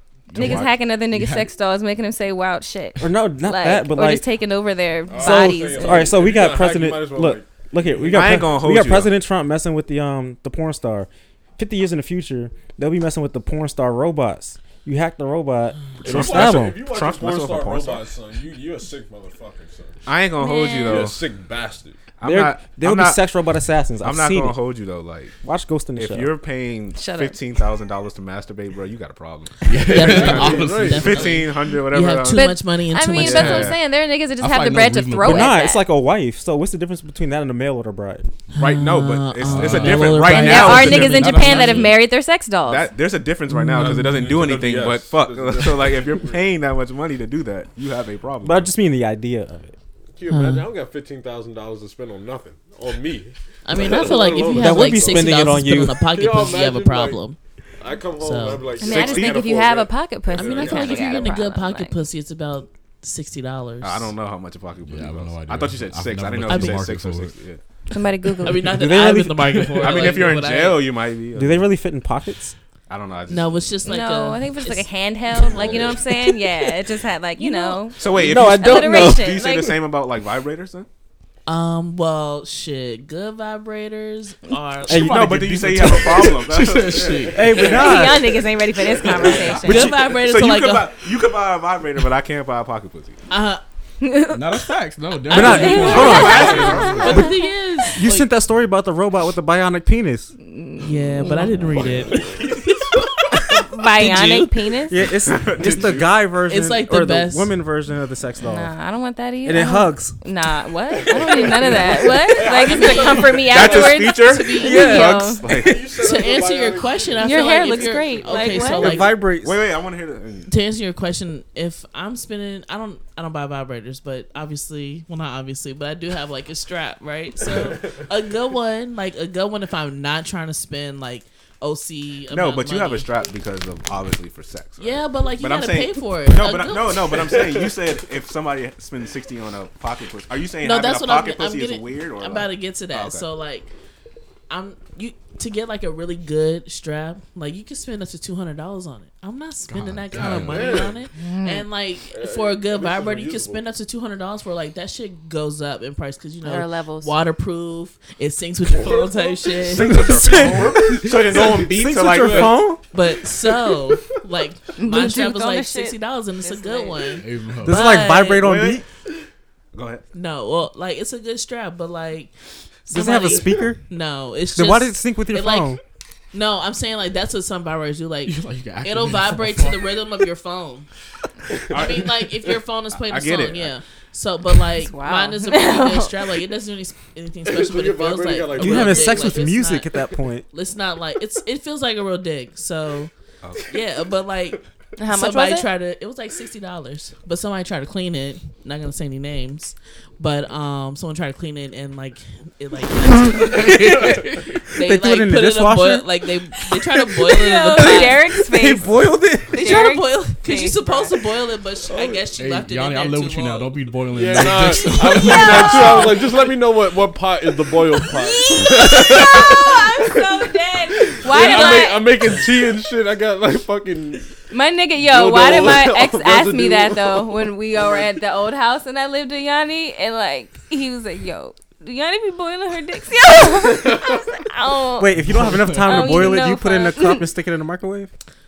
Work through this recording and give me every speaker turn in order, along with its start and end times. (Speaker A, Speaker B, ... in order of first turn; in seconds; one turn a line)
Speaker A: 0.3-1.5
Speaker B: 0.3-6.2
Speaker C: 0.4-0.7
Speaker D: 3.0-4.3
Speaker E: 5.1-8.4
Speaker D: 5.1-16.8
Speaker C: 8.1-9.1
Speaker C: 16.0-18.1
Speaker E: 16.0-20.0
Speaker C: 20.1-21.2
Speaker B: 20.4-21.1
Speaker E: 20.8-22.0
Speaker C: 22.2-23.2
Speaker D: 22.2-24.6
Speaker C: 24.0-25.4
Speaker D: 25.4-26.3
Speaker C: 25.9-32.5
Speaker B: 27.0-27.4
Speaker A: 29.7-31.4
Speaker F: 29.8-33.8
Speaker E: 30.1-31.3
Speaker B: 32.3-35.8
Speaker C: 33.1-33.8
Speaker A: 34.4-35.6
Speaker D: 35.2-38.3
Speaker F: 38.5-42.0
Speaker C: 38.6-41.5
Speaker A: 39.4-42.0
Speaker B: 40.3-42.9
Speaker C: 42.6-48.7
Speaker E: 43.8-46.5
Speaker D: 48.4-49.8
Speaker E: 50.1-57.2
Speaker F: 50.3-50.7
Speaker F: 53.6-57.4
Speaker D: 54.5-56.0
Speaker E: 57.8-61.3
Speaker F: 58.1-58.8
Speaker C: 58.8-59.5
Speaker B: 58.8-62.0
Speaker F: 60.4-64.1
Speaker C: 63.8-67.6
Speaker A: 64.8-67.4
Speaker F: 66.5-66.9
Speaker B: 67.9-68.7
Speaker F: 68.4-70.9
Speaker D: 68.7-69.9
Speaker C: 69.8-71.7
Speaker D: 71.3-72.5
Speaker C: 72.9-73.9
Speaker F: 73.3-74.9
Speaker B: 73.8-79.8
Speaker C: 75.5-76.0
Speaker F: 77.4-77.9
Speaker C: 78.0-80.9
Speaker D: 78.1-79.5
Speaker F: 81.5-85.4
Speaker D: 84.9-86.5
Speaker C: 84.9-87.7
Speaker A: 85.8-88.0
Speaker D: 87.3-88.4
Speaker B: 87.6-90.0
Speaker A: 89.2-89.6
Speaker F: 89.5-90.9
Speaker D: 89.7-89.9
Speaker C: 90.0-93.2
Speaker F: 93.3-93.6
Speaker B: 94.0-94.7
Speaker A: 94.3-97.2
Speaker F: 95.3-98.3
Speaker D: 95.3-97.3
Speaker B: 95.3-97.8
Speaker C: 95.9-97.2
Speaker D: 98.0-100.3
Speaker B: 100.4-101.5
Speaker F: 100.8-102.3
Speaker E: 101.8-102.5
Speaker B: 103.3-105.0
Speaker F: 104.0-104.7
Speaker D: 104.9-108.7
Speaker C: 105.3-106.1
Speaker F: 106.5-107.5
Speaker B: 108.4-115.6
Speaker D: 109.4-110.2
Speaker E: 110.9-113.4
Speaker F: 112.4-115.3
Speaker C: 113.4-115.9
Speaker E: 115.5-118.7
Speaker F: 115.9-119.2
Speaker B: 117.2-119.0
Speaker D: 118.7-119.6
Speaker C: 119.4-120.5
Speaker F: 120.5-133.1
Speaker E: 127.5-128.1
Speaker C: 132.3-143.3
Speaker F: 134.8-137.1
Speaker E: 137.2-137.8
Speaker F: 140.6-143.7
Speaker F: 144.5-160.0
Speaker A: 149.7-150.9
Speaker E: 150.3-151.0
Speaker B: 151.2-151.7
Speaker E: 152.1-153.6
Speaker B: 156.4-157.2
Speaker E: 158.7-159.7
Speaker C: 159.6-162.6
Speaker D: 159.8-162.8
Speaker E: 160.4-160.7
Speaker E: 161.3-161.6
Speaker E: 162.1-162.6
Speaker F: 162.9-168.5
Speaker E: 163.5-164.2
Speaker B: 164.8-167.2
Speaker A: 167.2-167.9
Speaker D: 167.7-168.8
Speaker C: 168.4-168.8
Speaker C: 169.7-170.0
Speaker F: 170.1-172.3
Speaker F: 172.9-175.8
Speaker D: 172.9-173.8
Speaker D: 174.5-175.8
Speaker F: 176.3-180.9
Speaker A: 178.3-180.0
Speaker C: 181.7-182.1
Speaker F: 181.7-193.1
Speaker E: 181.8-182.1
Speaker C: 182.9-183.8
Speaker B: 184.7-186.2
Speaker E: 187.4-189.4
Speaker D: 188.6-190.5
Speaker C: 193.4-193.7
Speaker F: 193.7-208.3
Speaker B: 195.0-195.7
Speaker D: 204.8-209.8
Speaker B: 207.3-208.9
Speaker F: 209.5-213.7
Speaker B: 209.5-211.2
Speaker E: 211.9-212.2
Speaker A: 212.4-216.2
Speaker E: 214.1-224.3
Speaker F: 215.0-216.5
Speaker B: 218.0-222.3
Speaker F: 221.3-222.4
Speaker B: 224.5-237.3
Speaker E: 225.0-228.2
Speaker E: 233.8-234.2
Speaker D: 235.0-238.1
Speaker A: 235.2-236.3